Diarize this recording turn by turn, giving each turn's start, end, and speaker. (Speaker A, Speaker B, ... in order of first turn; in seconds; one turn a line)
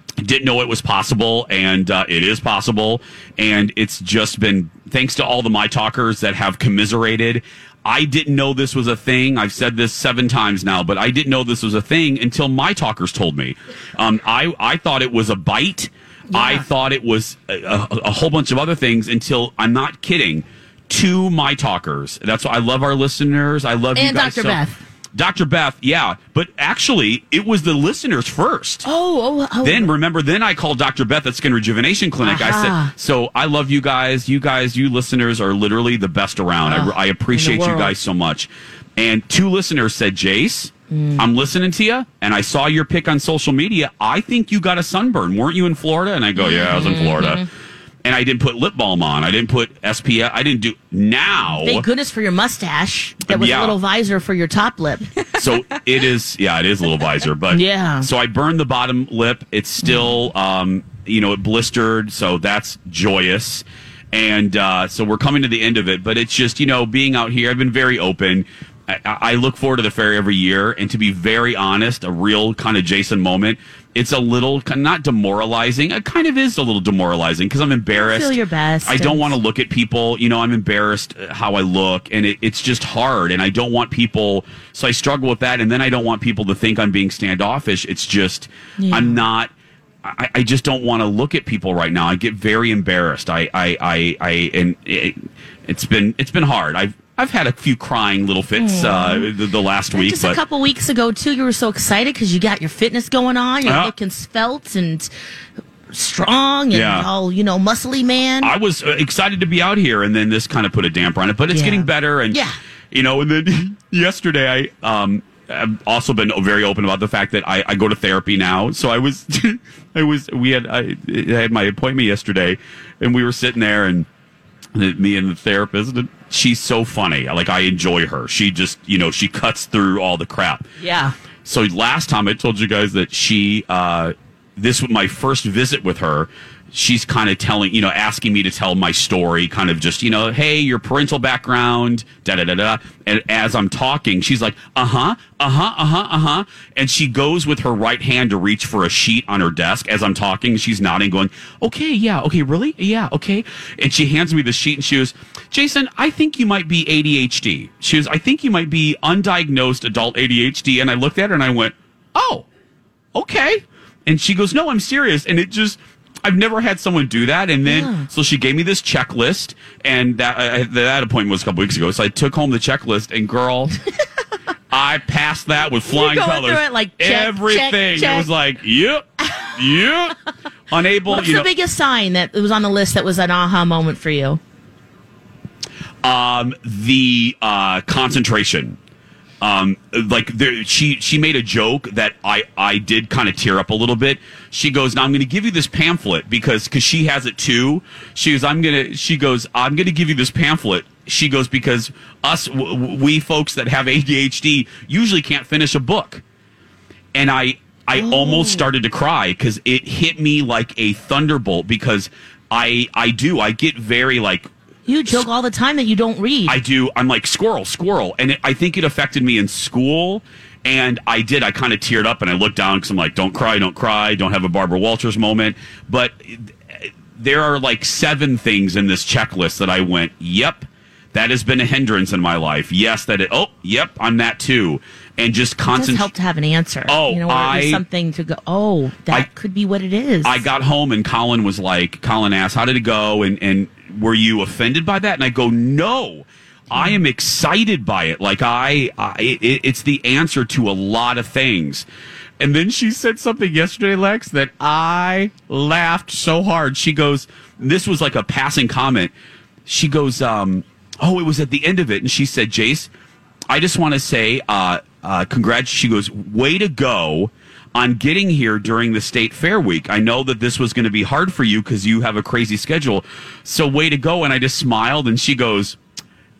Speaker A: 0.2-24.6
Speaker B: 16.3-16.6
Speaker B: 23.9-24.8
Speaker A: 25.1-28.9
Speaker B: 28.8-29.9
Speaker A: 29.6-47.5
Speaker B: 32.2-32.9
Speaker B: 36.6-37.9
Speaker B: 40.9-41.3
Speaker B: 46.4-47.5
Speaker A: 48.0-51.8
Speaker B: 51.5-55.1
Speaker A: 53.3-53.8
Speaker A: 55.4-89.5
Speaker B: 57.5-58.1
Speaker B: 59.8-60.1
Speaker B: 77.9-79.3
Speaker B: 88.8-89.2
Speaker A: 90.0-100.4
Speaker B: 98.6-99.3
Speaker B: 99.9-105.1
Speaker A: 103.6-103.9
Speaker B: 105.9-108.5
Speaker A: 106.7-107.1
Speaker A: 108.4-112.4
Speaker B: 111.5-112.6
Speaker A: 112.9-124.0
Speaker A: 124.7-130.6
Speaker B: 130.8-131.1
Speaker A: 131.4-162.4
Speaker A: 163.1-173.7
Speaker B: 167.6-168.1
Speaker A: 174.7-180.1
Speaker B: 175.8-178.3
Speaker A: 180.7-181.5
Speaker B: 181.1-184.4
Speaker A: 186.0-188.8
Speaker A: 189.4-206.2
Speaker A: 207.1-214.5
Speaker B: 208.0-208.7
Speaker B: 214.9-216.6
Speaker A: 216.5-236.1
Speaker B: 235.7-240.5
Speaker A: 236.9-237.8
Speaker A: 240.2-251.8
Speaker B: 246.7-247.0
Speaker A: 252.4-259.1
Speaker A: 259.6-262.9
Speaker A: 263.5-275.8